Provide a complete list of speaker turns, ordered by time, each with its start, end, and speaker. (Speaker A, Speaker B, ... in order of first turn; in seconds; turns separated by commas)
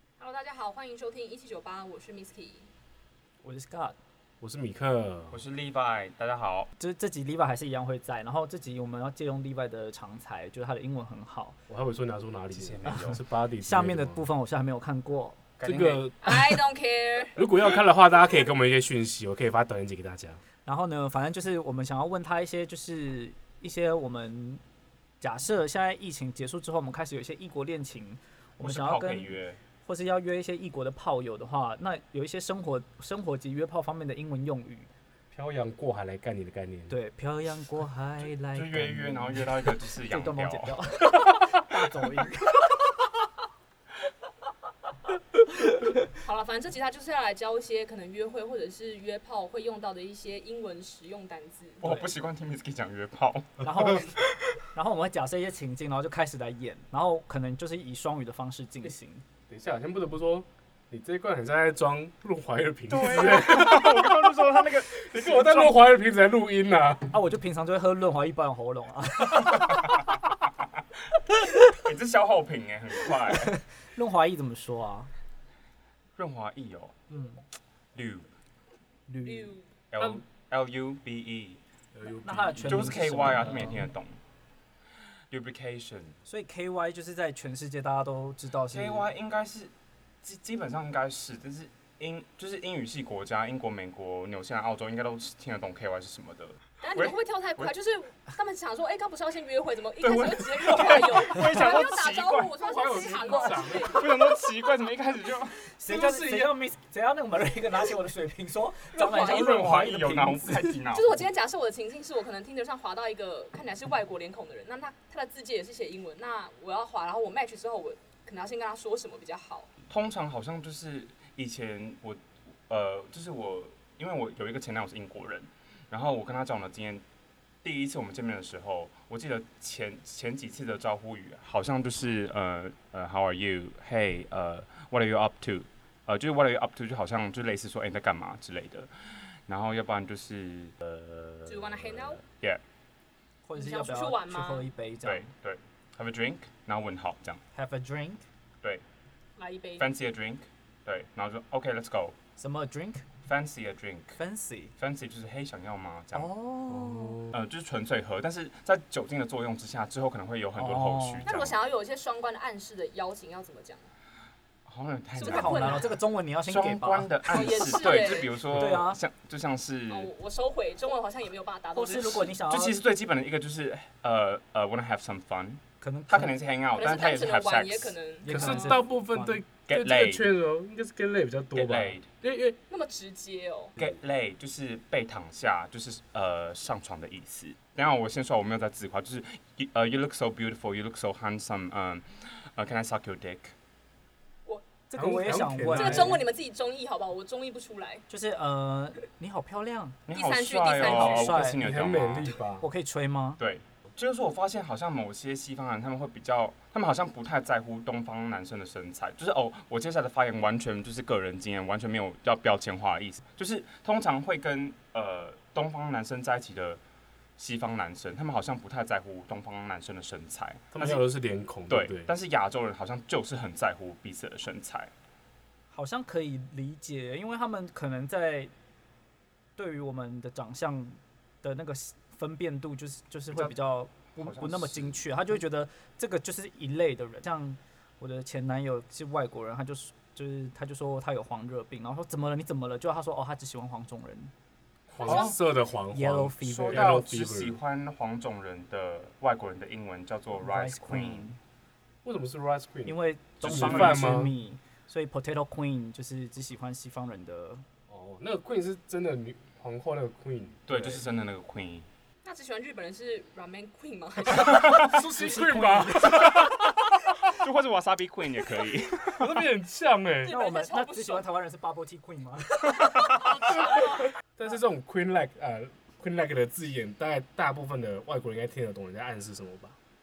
Speaker A: 0.2-2.7, Speaker B: 3.4-4.0, Speaker C: 4.4-5.4, Speaker D: 5.3-6.7, Speaker B: 6.8-11.6, Speaker C: 11.7-14.3, Speaker D: 12.5-13.2, Speaker B: 12.9-15.4, Speaker D: 15.6-16.0, Speaker C: 15.6-16.6, Speaker A: 16.2-17.4, Speaker C: 17.4-20.4, Speaker B: 20.7-24.6, Speaker B: 25.2-29.3, Speaker D: 28.6-29.6, Speaker B: 29.8-34.9, Speaker C: 35.3-37.0, Speaker B: 36.9-42.7, Speaker D: 38.5-40.8, Speaker A: 46.2-51.8, Speaker D: 51.8-54.2, Speaker B: 51.8-52.1, Speaker B: 53.6-59.2, Speaker C: 59.5-67.2, Speaker D: 62.9-65.9, Speaker B: 67.1-70.2, Speaker D: 69.7-70.0, Speaker B: 71.4-71.8, Speaker D: 71.8-73.6, Speaker B: 73.3-75.1, Speaker D: 76.2-77.0, Speaker B: 77.1-77.4, Speaker D: 77.9-78.3, Speaker B: 79.1-79.5, Speaker A: 79.2-79.7, Speaker D: 79.9-81.6, Speaker C: 81.9-83.8, Speaker B: 82.2-83.9, Speaker D: 82.7-84.2, Speaker D: 85.3-86.2, Speaker B: 86.2-89.1, Speaker D: 88.7-97.7, Speaker A: 96.8-104.8, Speaker D: 100.0-102.6, Speaker C: 102.6-104.0, Speaker B: 103.3-103.6, Speaker D: 103.9-105.7, Speaker B: 105.8-110.8, Speaker C: 105.9-106.5, Speaker A: 108.9-109.6, Speaker D: 109.0-111.3, Speaker A: 110.9-119.7, Speaker D: 119.9-127.0, Speaker D: 127.6-138.9, Speaker D: 139.5-142.6, Speaker A: 141.5-142.2, Speaker B: 143.5-145.3, Speaker A: 143.6-144.7, Speaker D: 145.0-147.4, Speaker B: 147.5-148.2, Speaker A: 149.4-149.9, Speaker D: 149.8-152.2, Speaker B: 152.4-153.1, Speaker D: 153.2-154.2, Speaker B: 154.2-154.8, Speaker D: 154.8-156.3, Speaker B: 156.1-157.2, Speaker C: 156.7-157.3, Speaker D: 157.3-161.6, Speaker B: 160.6-161.3, Speaker A: 161.2-163.9, Speaker D: 164.7-170.1, Speaker A: 165.2-166.0, Speaker B: 165.2-169.0, Speaker A: 167.3-168.4, Speaker A: 169.9-172.4, Speaker B: 171.7-172.8, Speaker D: 172.5-178.0, Speaker B: 175.8-176.4, Speaker A: 176.7-178.8, Speaker B: 178.2-179.4, Speaker C: 178.3-182.6, Speaker D: 179.7-180.3, Speaker D: 181.5-182.1, Speaker A: 182.7-183.7, Speaker D: 183.8-193.5, Speaker B: 194.9-196.2, Speaker C: 194.9-196.2, Speaker A: 195.3-198.0, Speaker B: 198.1-200.0, Speaker D: 200.1-202.3, Speaker A: 200.1-201.4, Speaker B: 200.8-201.6, Speaker C: 201.3-202.7, Speaker B: 202.6-203.4, Speaker D: 203.4-216.8, Speaker D: 217.4-221.0, Speaker C: 220.7-222.1, Speaker D: 221.7-224.9, Speaker B: 225.7-228.5, Speaker B: 229.6-244.3, Speaker D: 234.2-235.0, Speaker C: 244.9-247.6, Speaker D: 244.9-245.2, Speaker A: 245.1-245.3, Speaker B: 245.1-245.3, Speaker B: 245.9-247.1, Speaker D: 246.5-251.3, Speaker B: 250.4-251.4, Speaker C: 252.0-254.3, Speaker B: 252.8-257.6, Speaker D: 253.4-254.1, Speaker C: 257.9-261.0, Speaker D: 260.7-261.9, Speaker A: 262.2-264.6, Speaker B: 264.4-266.4, Speaker C: 264.4-266.7, Speaker D: 264.5-264.9, Speaker D: 267.2-269.4, Speaker C: 269.1-270.3, Speaker A: 270.2-271.2, Speaker B: 270.3-273.3, Speaker C: 274.4-279.8